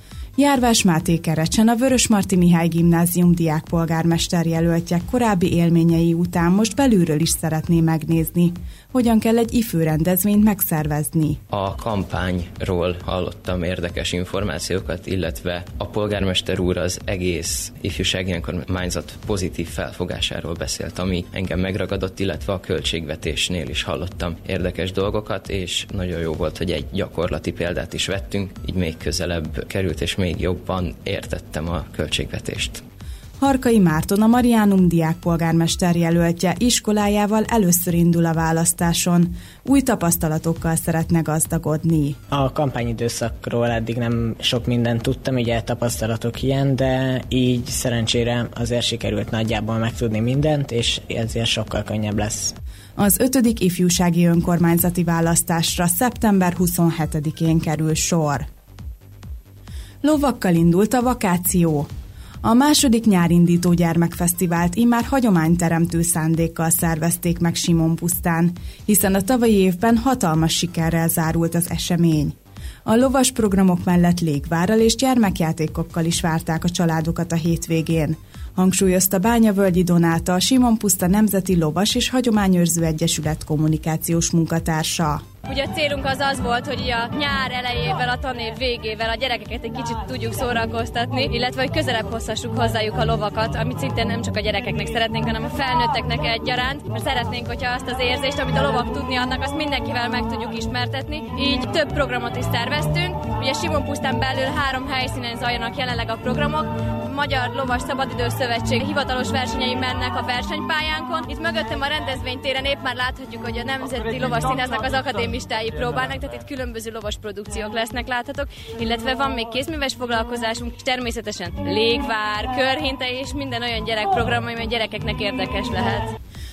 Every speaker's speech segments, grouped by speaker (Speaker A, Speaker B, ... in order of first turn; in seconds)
Speaker A: 0.4-11.4, 33.4-42.2, 53.0-58.5, 60.0-61.9, 62.4-72.3, 72.8-85.2
Speaker B: 11.5-32.8
Speaker C: 42.3-52.5
Speaker D: 85.5-126.1